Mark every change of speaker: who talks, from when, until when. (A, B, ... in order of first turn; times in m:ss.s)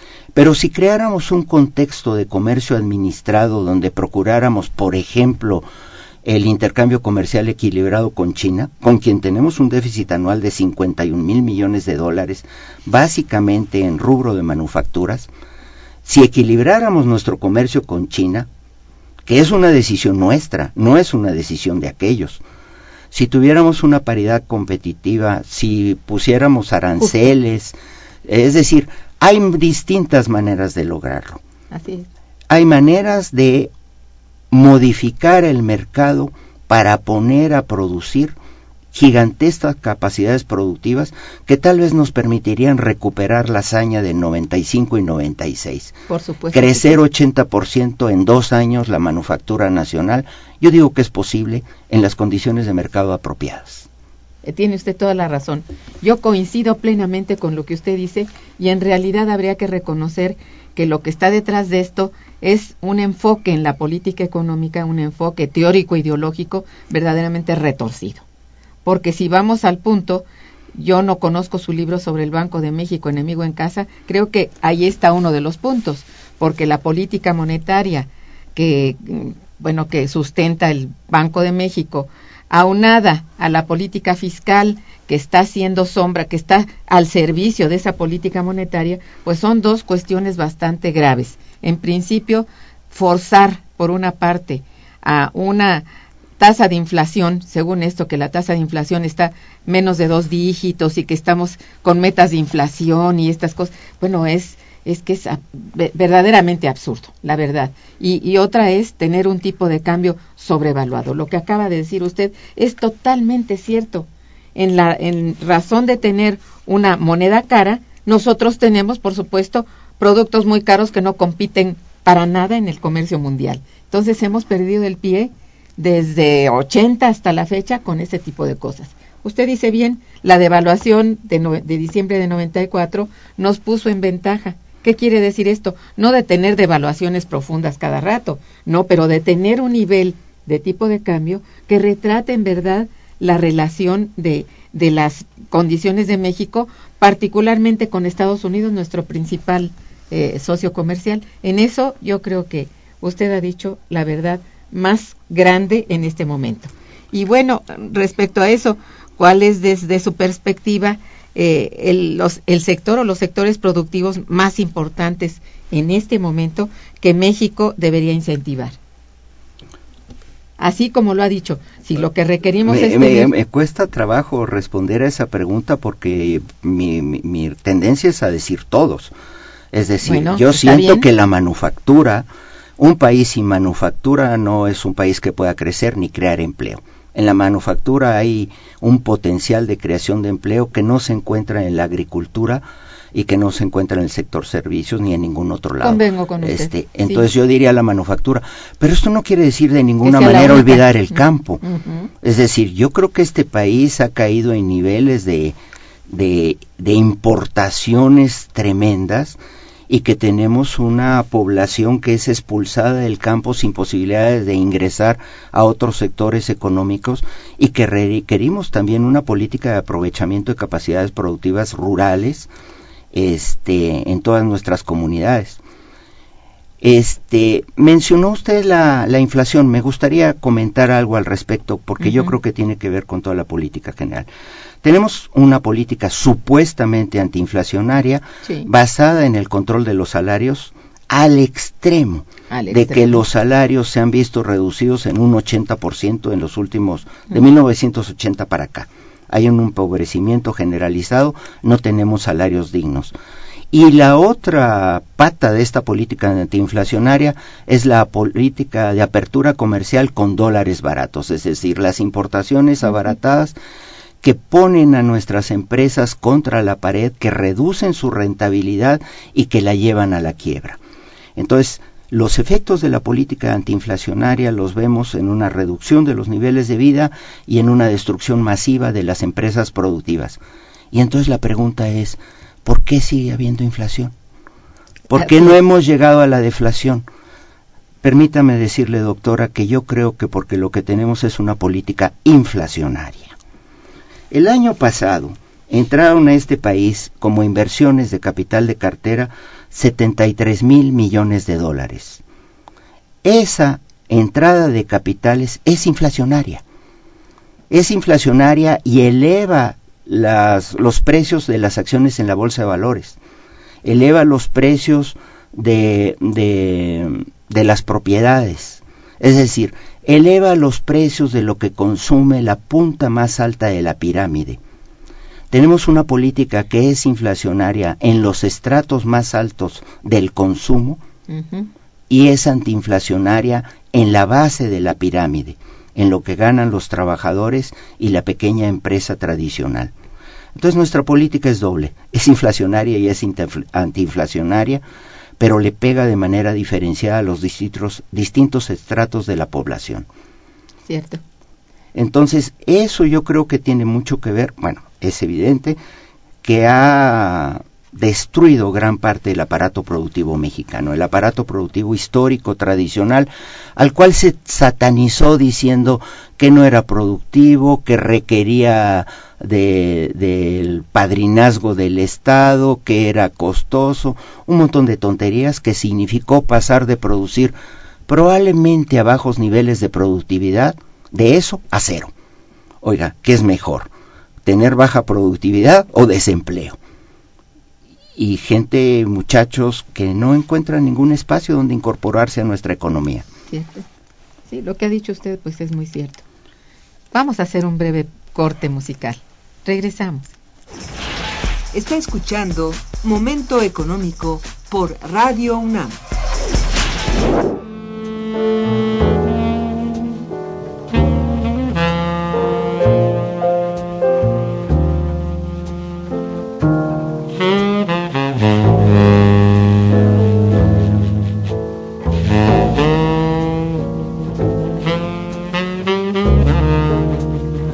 0:00.3-0:05.7 A
0:06.2-0:15.3 A
0:16.0-0:18.5 A
0:19.2-0:22.4 A
0:23.1-0:31.4 A
0:31.7-0:32.1 B
0:32.5-0:33.7 A
0:34.5-0:38.3 A
0:38.9-0:45.9 A
0:46.1-0:47.0 B
0:46.5-0:53.9 A
0:54.4-1:08.2 B
1:08.8-1:35.8 B
1:36.4-2:48.8 B
2:50.6-2:53.3 B
2:52.6-2:59.1 A
2:59.7-3:02.2 A
3:00.0-3:01.1 B
3:02.8-3:21.6 A
3:15.8-3:17.2 B
3:20.0-3:22.1 B
3:22.2-3:25.6 A
3:26.1-3:42.5 A
3:43.1-3:45.6 A
3:46.8-3:54.3 A
3:52.0-3:52.3 B
3:54.8-4:13.1 A
4:02.5-4:03.2 B
4:13.7-4:23.5 A
4:24.2-4:30.8 A
4:31.4-4:40.4 A
4:40.9-4:44.1 A
4:45.1-4:47.0 A
4:45.2-4:45.5 B
4:48.0-4:53.4 A
4:54.3-5:02.2 A
5:03.2-5:06.6 A
5:07.7-5:13.2 A
5:13.8-5:24.6 A
5:25.5-5:31.0 A
5:31.3-5:31.7 B
5:32.1-5:39.9 A
5:40.5-5:44.8 A
5:45.4-5:50.1 A
5:50.8-5:51.2 B
5:51.9-5:55.8 A
5:56.4-6:17.5 A
6:18.1-6:22.1 A
6:22.8-6:23.9 A
6:24.4-6:26.8 A
6:28.2-6:33.3 A
6:33.5-6:33.8 B
6:34.5-6:36.2 B
6:37.1-6:40.3 B
6:41.7-6:46.0 C